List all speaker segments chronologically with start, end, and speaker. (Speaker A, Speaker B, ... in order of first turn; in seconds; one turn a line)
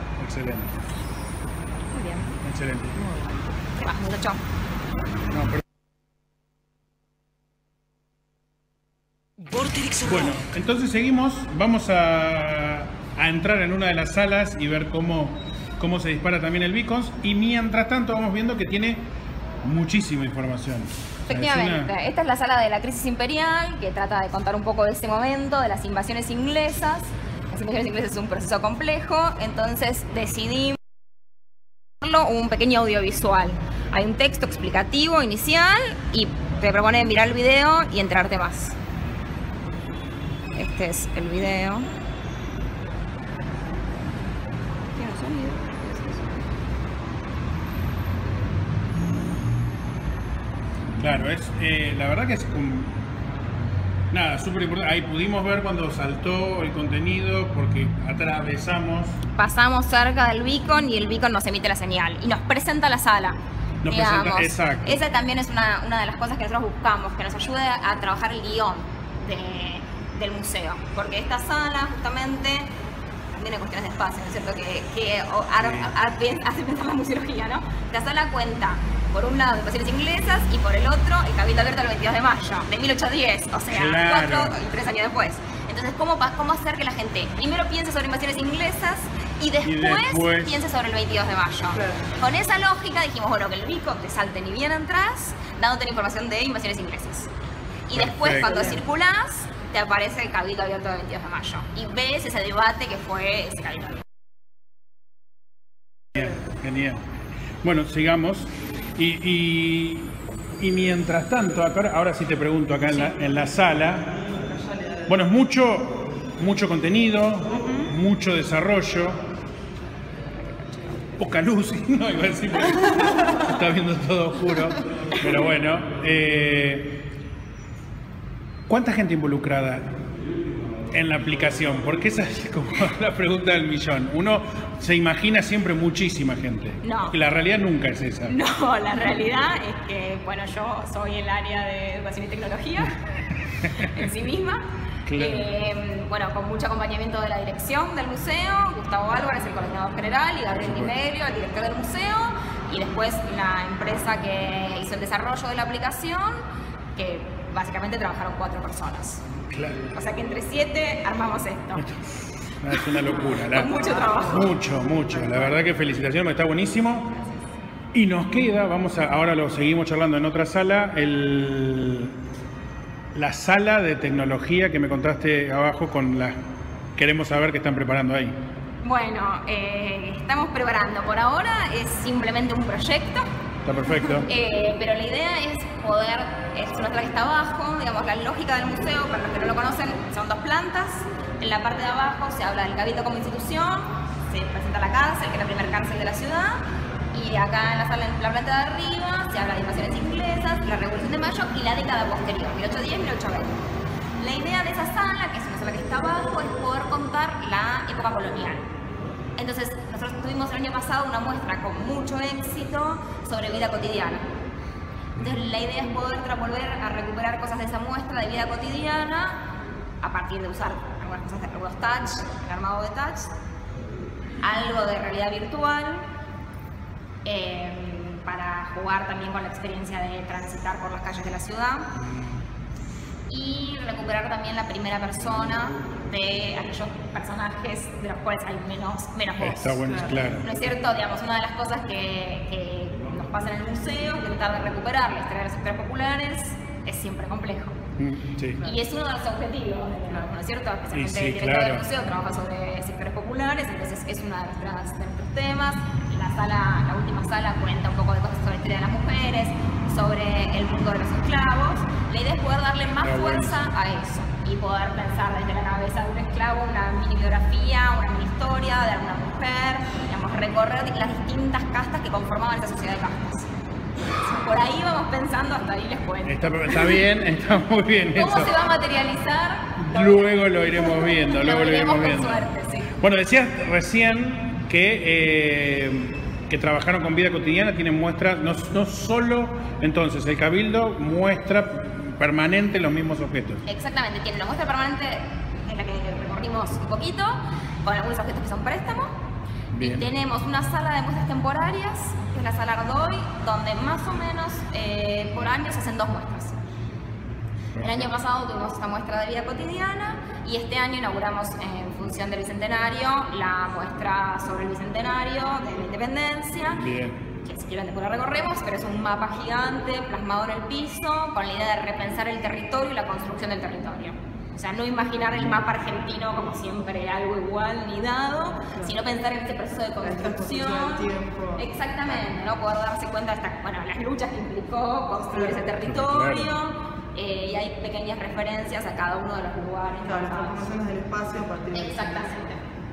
Speaker A: 0.2-0.8
Speaker B: 1.9-2.3
Speaker A: 2.4-3.1
Speaker B: 3.8-4.4
Speaker A: 5.3-5.6
Speaker A: 10.0-19.0
Speaker A: 19.6-21.9
Speaker B: 21.3-30.8
Speaker B: 32.0-38.8
Speaker B: 40.5-41.9
Speaker B: 45.0-46.4
Speaker A: 51.0-53.0
Speaker A: 54.1-59.2
Speaker B: 59.4-72.7
Speaker A: 63.8-65.0
Speaker B: 73.3-97.3
Speaker A: 75.6-75.9
Speaker A: 83.7-84.6
Speaker A: 89.6-90.6
Speaker C: 91.8-92.0
Speaker B: 97.9-104.0
Speaker A: 97.9-98.7
Speaker C: 98.4-98.8
Speaker A: 106.1-107.0
Speaker A: 107.6-114.1
Speaker B: 112.9-113.1
Speaker C: 114.5-115.1
Speaker A: 115.1-119.2
Speaker B: 117.5-117.9
Speaker B: 120.4-121.1
Speaker A: 121.2-126.9
Speaker B: 122.7-123.6
Speaker B: 125.1-125.5
Speaker A: 128.7-129.8
Speaker A: 130.9-138.4
Speaker B: 136.8-137.2
Speaker B: 138.3-143.0
Speaker A: 143.6-144.0
Speaker B: 143.7-156.4
Speaker A: 145.1-145.5
Speaker A: 150.6-150.9
Speaker B: 156.9-159.2
Speaker A: 159.5-159.9
Speaker B: 159.9-161.9
Speaker A: 161.8-162.1
Speaker A: 162.6-167.1
Speaker B: 162.8-164.5
Speaker C: 163.8-164.4
Speaker C: 165.1-165.6
Speaker A: 167.9-172.2
Speaker A: 173.1-176.4
Speaker A: 177.0-178.4
Speaker B: 178.8-183.3
Speaker A: 183.7-184.3
Speaker B: 184.1-203.6
Speaker B: 204.2-208.6
Speaker B: 209.4-214.3
Speaker B: 215.2-219.4
Speaker B: 220.0-223.3
Speaker B: 224.4-226.1
Speaker B: 227.2-231.9
Speaker A: 231.9-232.4
Speaker B: 233.3-247.8
Speaker A: 239.4-240.6
Speaker A: 248.0-248.6
Speaker B: 248.6-273.5
Speaker A: 250.9-251.9
Speaker A: 263.0-263.6
Speaker B: 274.2-277.1
Speaker A: 276.3-278.6
Speaker B: 278.1-282.9
Speaker A: 279.8-293.6
Speaker B: 293.7-299.1
Speaker A: 299.7-300.1
Speaker B: 299.8-306.6
Speaker A: 307.7-308.1
Speaker B: 307.8-316.8
Speaker A: 316.7-317.2
Speaker B: 317.4-340.7
Speaker A: 325.4-325.6
Speaker C: 330.0-331.6
Speaker C: 335.3-335.7
Speaker A: 335.8-336.5
Speaker C: 340.0-342.4
Speaker B: 341.7-342.6